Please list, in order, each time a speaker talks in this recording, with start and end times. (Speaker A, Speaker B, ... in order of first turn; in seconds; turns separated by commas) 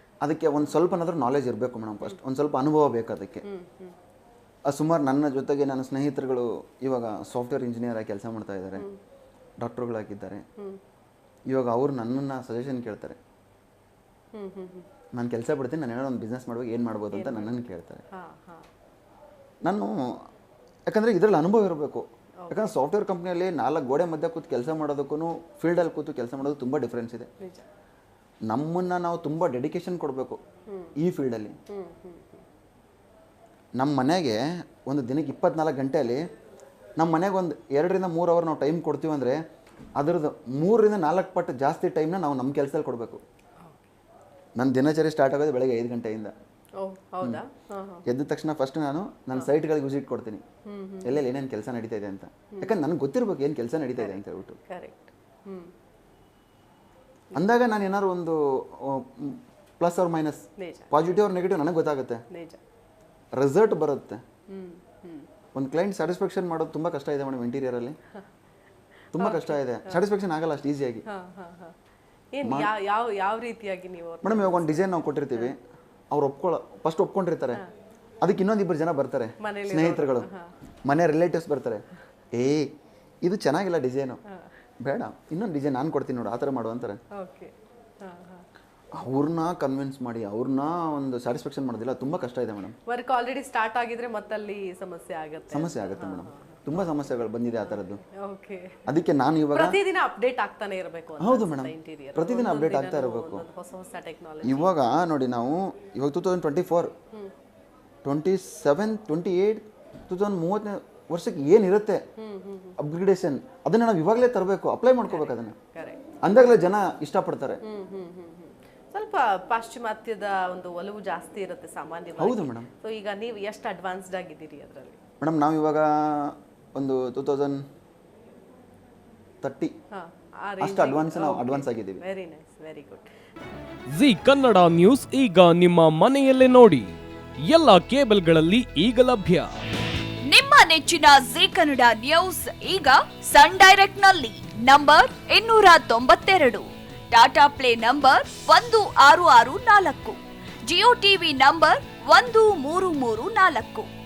Speaker A: 0.2-3.4, Speaker B: 3.4-4.0, Speaker A: 4.7-8.9, Speaker A: 9.6-10.4, Speaker A: 11.5-13.2, Speaker B: 14.3-14.9, Speaker A: 15.1-18.0, Speaker B: 17.1-17.6, Speaker B: 18.1-18.7, Speaker A: 19.6-20.2, Speaker A: 20.9-27.3, Speaker B: 22.4-22.7, Speaker B: 27.4-27.6, Speaker A: 28.5-30.4, Speaker B: 30.7-30.9, Speaker A: 31.0-31.6, Speaker B: 31.7-32.4, Speaker A: 33.8-36.2, Speaker A: 37.0-39.4, Speaker A: 40.0-43.2, Speaker B: 43.6-43.9, Speaker A: 44.6-46.3, Speaker B: 46.8-48.0, Speaker A: 48.0-50.4, Speaker B: 50.6-51.2, Speaker A: 51.0-54.6, Speaker B: 54.0-55.7, Speaker A: 57.3-62.2, Speaker B: 60.6-60.9, Speaker B: 62.3-62.6, Speaker A: 63.4-64.2, Speaker B: 64.5-65.3, Speaker A: 65.5-68.0, Speaker A: 69.1-71.0, Speaker B: 69.1-70.0, Speaker B: 71.1-71.7, Speaker B: 72.3-75.5, Speaker A: 72.4-72.7, Speaker A: 74.2-75.6, Speaker A: 76.1-77.6, Speaker A: 78.2-80.3, Speaker B: 79.4-80.5, Speaker A: 80.8-82.7, Speaker A: 83.2-84.2, Speaker A: 84.8-87.0, Speaker B: 87.1-88.4, Speaker A: 88.9-92.8, Speaker B: 92.9-96.9, Speaker A: 95.5-98.0, Speaker B: 97.7-98.8, Speaker A: 98.9-99.8, Speaker B: 99.5-104.7, Speaker A: 101.2-103.5, Speaker A: 104.4-106.9, Speaker A: 108.0-112.0, Speaker B: 112.2-112.8, Speaker A: 112.8-115.5, Speaker B: 115.1-116.2, Speaker A: 116.2-117.6, Speaker B: 117.6-125.0, Speaker A: 122.2-122.7, Speaker A: 125.2-127.6, Speaker A: 129.4-129.7, Speaker B: 129.9-133.1, Speaker A: 130.6-132.0, Speaker C: 133.9-139.5, Speaker D: 140.2-153.9